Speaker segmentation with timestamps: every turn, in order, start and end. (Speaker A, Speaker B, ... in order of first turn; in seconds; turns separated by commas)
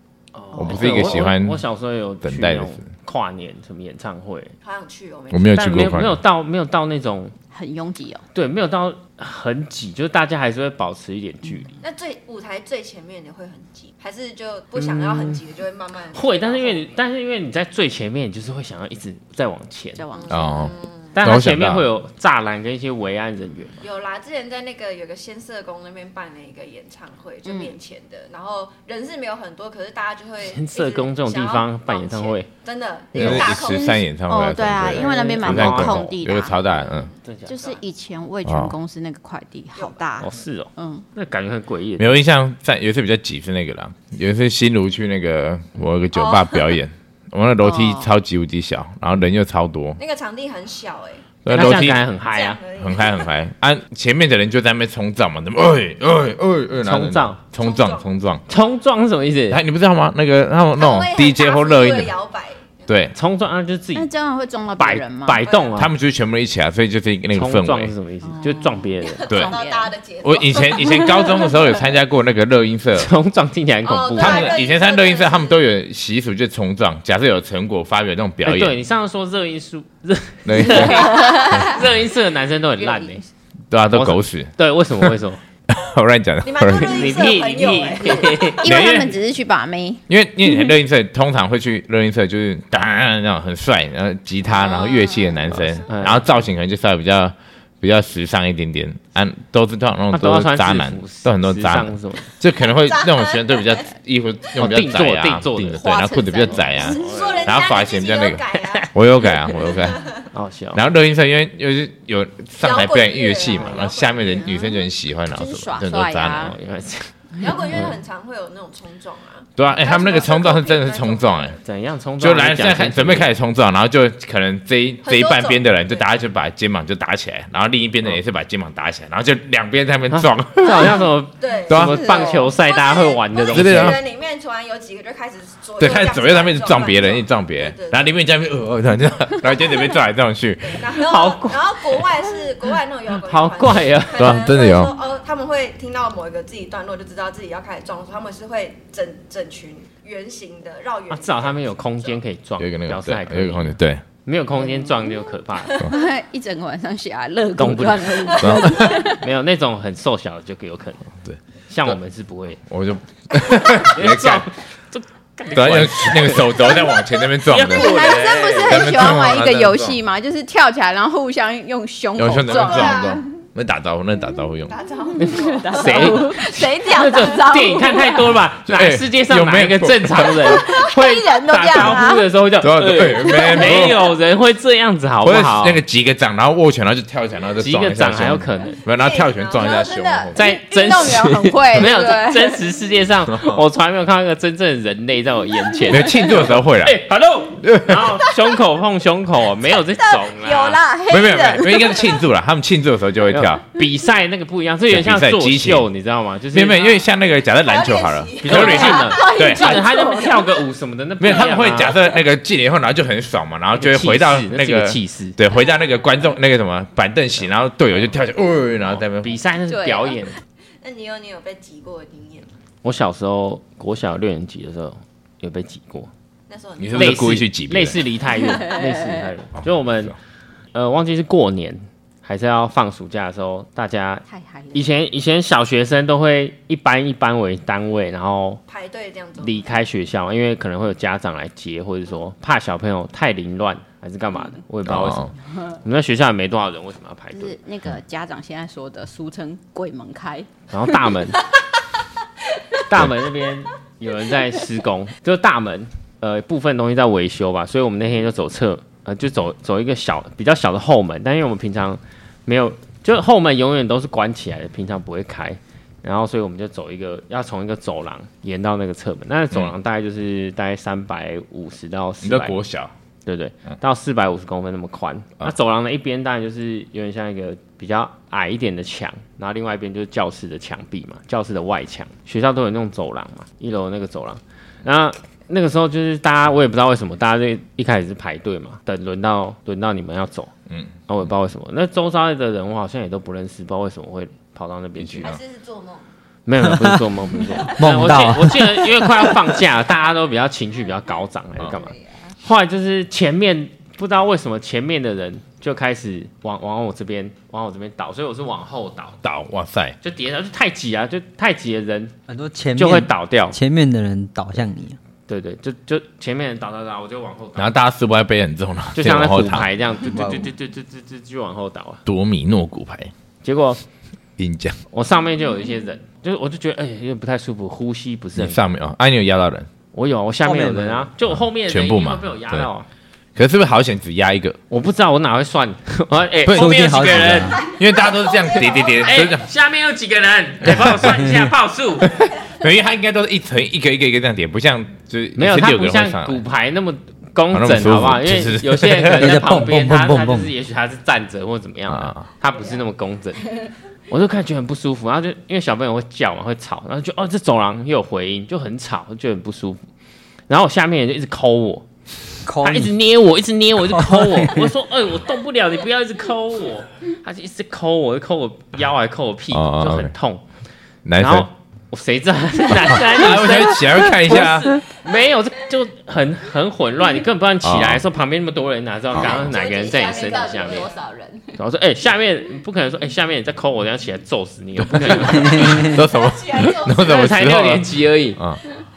Speaker A: 0.3-4.5, Speaker B: 0.5-1.1, Speaker C: 0.6-1.6, Speaker C: 2.2-2.8, Speaker D: 4.6-5.7, Speaker C: 5.3-6.2, Speaker A: 5.5-7.3, Speaker B: 7.5-8.2, Speaker A: 8.3-11.7, Speaker D: 11.8-16.9, Speaker A: 14.7-15.4, Speaker A: 16.1-20.0, Speaker B: 19.9-20.6, Speaker D: 20.2-21.1, Speaker C: 20.3-21.9, Speaker A: 21.1-23.8, Speaker D: 23.8-34.0, Speaker B: 27.4-27.7, Speaker A: 30.4-32.5, Speaker B: 33.1-36.6, Speaker C: 33.1-37.1, Speaker A: 34.8-36.0, Speaker D: 36.6-37.1, Speaker A: 37.2-37.7, Speaker B: 37.5-41.0, Speaker C: 38.4-38.8, Speaker A: 40.2-42.1, Speaker C: 42.0-50.0, Speaker D: 46.1-46.7, Speaker B: 47.6-48.1, Speaker D: 50.0-51.8, Speaker C: 51.4-52.0, Speaker A: 51.5-52.6, Speaker D: 52.3-53.3, Speaker C: 52.7-58.4, Speaker A: 56.8-57.4, Speaker D: 57.5-58.2, Speaker A: 58.5-59.6, Speaker C: 59.5-62.1, Speaker D: 60.8-62.9, Speaker C: 62.9-63.1, Speaker A: 63.1-64.1, Speaker B: 63.9-65.4, Speaker A: 64.8-65.9, Speaker D: 65.4-65.8, Speaker C: 65.8-67.9, Speaker A: 67.3-69.2, Speaker B: 68.2-69.9, Speaker D: 69.2-71.5, Speaker C: 69.3-69.5, Speaker C: 70.2-73.1, Speaker A: 72.9-74.6, Speaker D: 73.8-75.6, Speaker C: 74.2-78.8, Speaker A: 78.4-83.2, Speaker C: 80.4-81.4, Speaker B: 80.7-81.8, Speaker D: 81.4-81.6, Speaker C: 83.7-85.1, Speaker A: 83.9-85.4, Speaker C: 85.7-87.2, Speaker D: 86.4-88.6, Speaker A: 86.7-89.1, Speaker B: 88.3-90.0, Speaker C: 88.6-89.2, Speaker C: 90.1-110.1, Speaker B: 94.5-95.6, Speaker A: 95.8-96.3, Speaker A: 100.1-102.3, Speaker D: 102.9-103.9, Speaker A: 104.6-105.9, Speaker B: 105.7-107.0, Speaker A: 106.5-107.7, Speaker D: 106.8-110.2, Speaker A: 110.3-110.8, Speaker C: 110.7-116.5, Speaker D: 112.6-114.5, Speaker B: 114.3-116.5, Speaker A: 116.4-117.9, Speaker D: 117.4-121.6, Speaker C: 119.6-121.6, Speaker A: 121.6-123.3, Speaker C: 122.2-131.0, Speaker D: 125.0-126.1, Speaker A: 130.1-134.0, Speaker D: 130.8-138.1, Speaker C: 131.7-132.3, Speaker C: 133.5-134.0, Speaker C: 135.8-140.8, Speaker D: 140.6-152.1, Speaker A: 140.9-142.0, Speaker A: 143.2-144.5, Speaker C: 144.2-144.9, Speaker A: 151.1-155.8, Speaker C: 152.6-154.0, Speaker B: 154.7-159.2, Speaker A: 157.6-161.1, Speaker C: 158.4-159.1, Speaker C: 161.2-161.9, Speaker A: 161.7-162.6, Speaker C: 162.7-164.5, Speaker A: 163.8-169.0, Speaker C: 165.5-168.1, Speaker B: 167.7-173.2, Speaker C: 168.7-170.0, Speaker C: 172.2-174.8, Speaker D: 172.5-173.2, Speaker D: 174.7-176.6, Speaker B: 175.1-178.3, Speaker A: 175.2-185.8, Speaker C: 178.7-180.6, Speaker B: 180.5-182.2, Speaker C: 182.6-184.1, Speaker B: 183.3-183.8, Speaker C: 185.2-190.4, Speaker A: 187.6-188.8, Speaker D: 188.9-190.3, Speaker B: 189.8-192.6, Speaker A: 190.3-200.8, Speaker C: 193.3-193.6, Speaker C: 195.9-197.0, Speaker C: 197.6-198.1, Speaker B: 200.0-202.0, Speaker C: 201.1-203.7, Speaker A: 203.3-206.9, Speaker C: 204.9-205.8, Speaker C: 206.5-209.9, Speaker D: 207.4-209.4, Speaker A: 208.4-212.0, Speaker B: 208.6-210.5, Speaker C: 211.2-219.3, Speaker A: 213.7-215.4, Speaker A: 219.2-220.3, Speaker B: 219.7-220.2, Speaker D: 220.8-222.6, Speaker A: 222.8-226.1, Speaker D: 226.5-227.4, Speaker C: 226.8-228.0, Speaker A: 226.9-230.1, Speaker B: 228.4-229.2, Speaker A: 230.7-238.6, Speaker B: 234.3-234.9, Speaker D: 238.7-239.8, Speaker A: 239.4-247.6, Speaker B: 244.3-244.6, Speaker C: 244.8-245.3, Speaker B: 247.3-250.6, Speaker A: 250.7-251.4, Speaker A: 252.8-272.6, Speaker C: 272.2-272.9, Speaker A: 273.2-290.5, Speaker C: 290.7-290.9, Speaker A: 291.1-295.3, Speaker C: 295.0-295.4, Speaker D: 295.2-296.0, Speaker A: 296.4-309.2, Speaker E: 296.6-297.0, Speaker E: 297.6-299.4, Speaker D: 301.8-302.1, Speaker C: 309.2-309.9, Speaker A: 310.0-312.1, Speaker E: 312.3-315.0, Speaker A: 312.8-313.6, Speaker A: 315.3-317.7, Speaker C: 317.6-319.7, Speaker A: 318.9-322.0, Speaker E: 320.1-320.5, Speaker C: 322.0-323.1, Speaker A: 323.4-323.8, Speaker C: 324.4-324.8, Speaker A: 324.9-328.6, Speaker C: 328.4-329.7, Speaker A: 329.9-332.9, Speaker E: 330.4-331.1, Speaker C: 331.7-332.7, Speaker C: 333.3-334.6, Speaker A: 334.7-337.7, Speaker C: 336.5-339.4, Speaker E: 336.5-337.6, Speaker A: 339.0-342.2, Speaker C: 342.2-346.4, Speaker A: 345.4-353.5, Speaker C: 347.5-349.4, Speaker E: 349.1-350.5, Speaker C: 351.9-352.3, Speaker A: 354.1-359.8, Speaker A: 360.5-361.9, Speaker E: 362.4-362.9, Speaker A: 362.6-370.4, Speaker E: 363.9-364.7, Speaker C: 369.5-370.1, Speaker C: 371.0-371.5, Speaker A: 371.2-380.9, Speaker C: 372.7-374.8, Speaker C: 377.6-378.0, Speaker C: 379.1-379.4, Speaker B: 379.2-381.6, Speaker D: 379.2-381.0, Speaker A: 381.6-385.9, Speaker C: 384.8-388.6, Speaker E: 385.2-386.0, Speaker D: 386.0-387.2, Speaker A: 386.9-388.4